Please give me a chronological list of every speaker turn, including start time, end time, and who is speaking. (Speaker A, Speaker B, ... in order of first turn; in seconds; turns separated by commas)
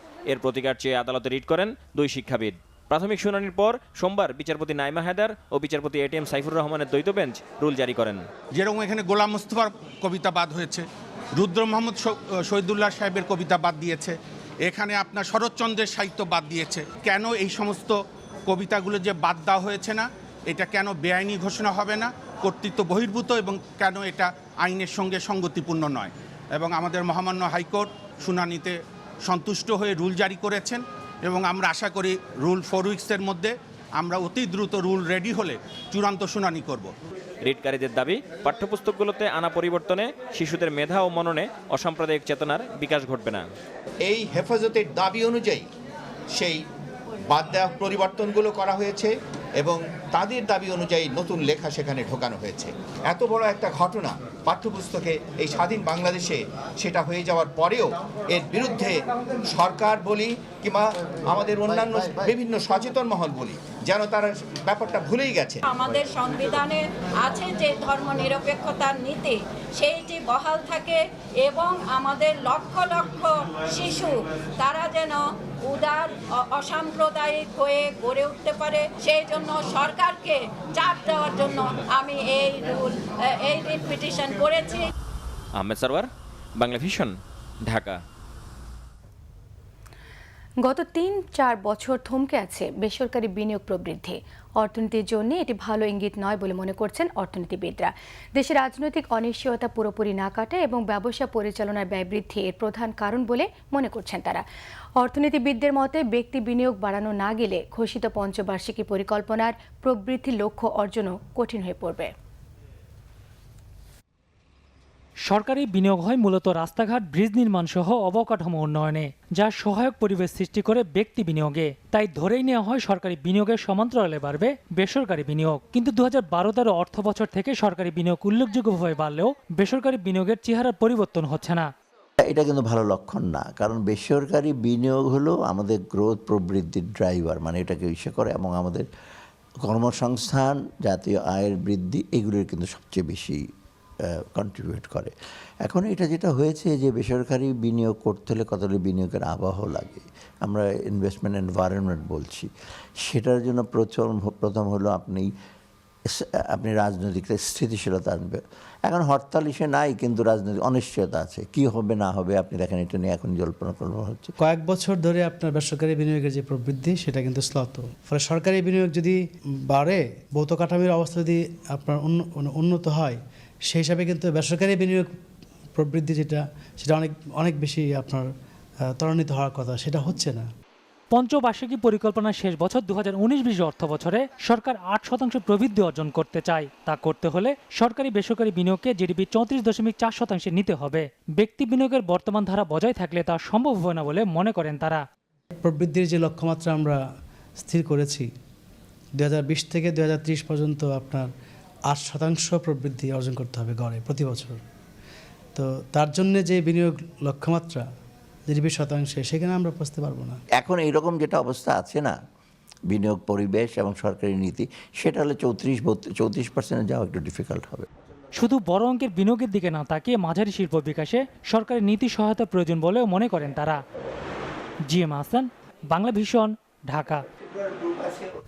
Speaker A: 0.3-8.1, Speaker B: 8.6-10.8, Speaker B: 11.4-14.2, Speaker B: 14.7-17.9, Speaker B: 18.5-28.7, Speaker B: 29.3-36.9, Speaker A: 37.5-43.4, Speaker C: 44.0-45.6, Speaker C: 47.3-59.0, Speaker C: 59.5-65.6, Speaker D: 65.7-84.9, Speaker A: 85.6-86.0, Speaker A: 86.6-87.1, Speaker A: 87.7-87.9, Speaker E: 90.6-104.4, Speaker E: 105.0-112.1, Speaker F: 115.3-131.7, Speaker G: 132.2-138.9, Speaker G: 139.7-143.4, Speaker G: 144.1-145.1, Speaker G: 145.7-152.5, Speaker G: 153.0-155.3, Speaker G: 156.1-164.3, Speaker H: 164.4-173.2, Speaker H: 173.7-175.1, Speaker H: 175.8-178.3, Speaker H: 179.0-180.5, Speaker F: 181.1-195.0, Speaker H: 195.6-197.0, Speaker H: 197.6-198.3, Speaker H: 199.2-201.3, Speaker H: 201.9-204.6, Speaker H: 205.6-207.8, Speaker H: 208.5-210.4, Speaker G: 210.6-212.2, Speaker G: 212.9-217.8, Speaker F: 218.4-223.8, Speaker F: 224.9-227.2